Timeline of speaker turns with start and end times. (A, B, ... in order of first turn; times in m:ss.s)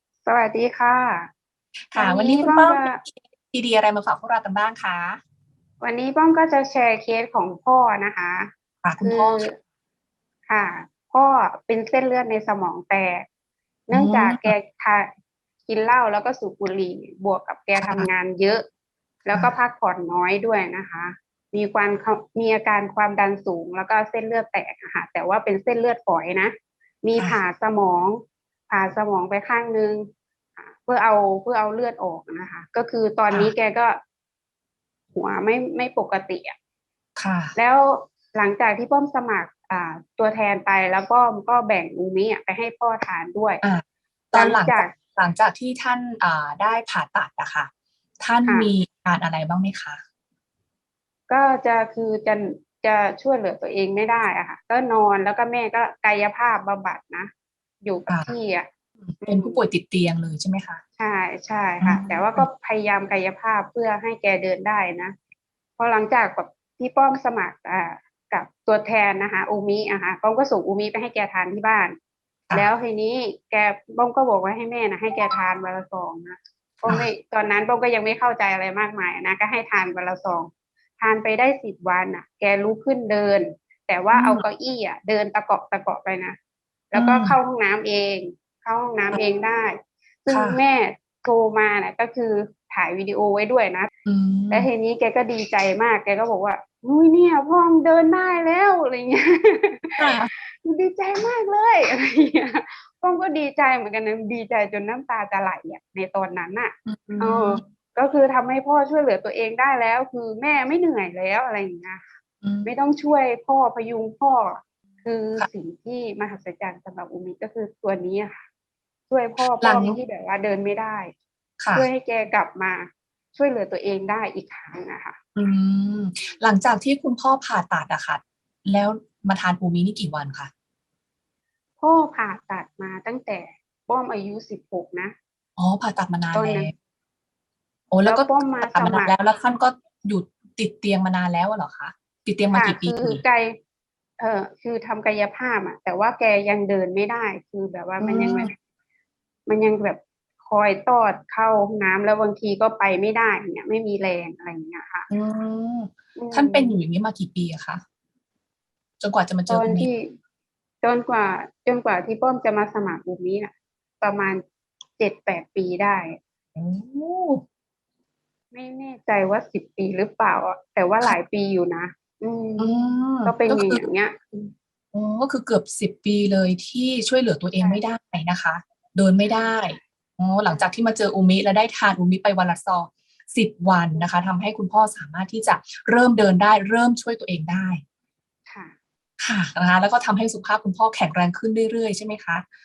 0:00.2-0:01.3 A
0:01.9-0:05.2 B
0:02.0-0:03.0 A
0:05.8-0:09.5 A
0:08.8-0:09.5 B
0:10.5-0:13.3 A
0:13.9-0:15.1 A
0:13.9-0:14.5 B
0:15.7-0:18.6 A
0:17.8-0:18.1 B
0:19.3-0:26.5 A
0:27.0-0:34.0 A
0:35.1-0:36.6 A
0:37.2-0:37.6 B
0:37.6-0:43.6 A
0:43.6-0:47.7 B
0:44.3-0:45.0 A
0:48.2-0:50.0 B
0:51.3-0:57.3 A
0:57.8-0:58.7 A
0:59.0-1:00.8 B
0:59.2-0:59.6 A
1:01.0-1:05.2 A
1:01.8-1:02.5 B
1:05.8-1:12.0 A
1:12.5-1:26.4 A
1:24.1-1:24.4 B
1:26.9-1:33.9 A
1:26.9-1:27.4 B
1:30.3-1:30.6 B
1:34.1-1:34.7 B
1:34.5-1:52.1 A
1:40.0-1:40.3 B
1:46.9-1:47.6 B
1:52.4-1:52.7 B
1:52.6-1:58.4 A
1:59.1-2:01.1 A
1:59.6-2:00.0 B
2:01.6-2:01.9 B
2:01.7-2:05.2 A
2:05.4-2:10.5 B
2:11.8-2:15.2 A
2:15.6-2:16.7 B
2:16.3-2:16.7 A
2:17.9-2:23.2 B
2:18.0-2:19.1 A
2:22.5-2:23.6 A
2:24.2-2:28.5 A
2:28.0-2:28.5 B
2:29.5-2:35.1 A
2:35.1-2:37.8 B
2:36.2-2:36.8 A
2:39.0-2:39.9 B
2:39.5-2:40.1 A
2:40.8-2:44.4 A
2:45.0-2:46.2 A
2:46.6-2:47.4 B
2:48.5-2:54.5 A
2:52.6-2:53.8 B
2:54.9-3:07.8 B
2:57.6-2:57.8 A
2:59.2-2:59.8 A
3:08.5-3:08.8 A
3:09.2-3:12.4 B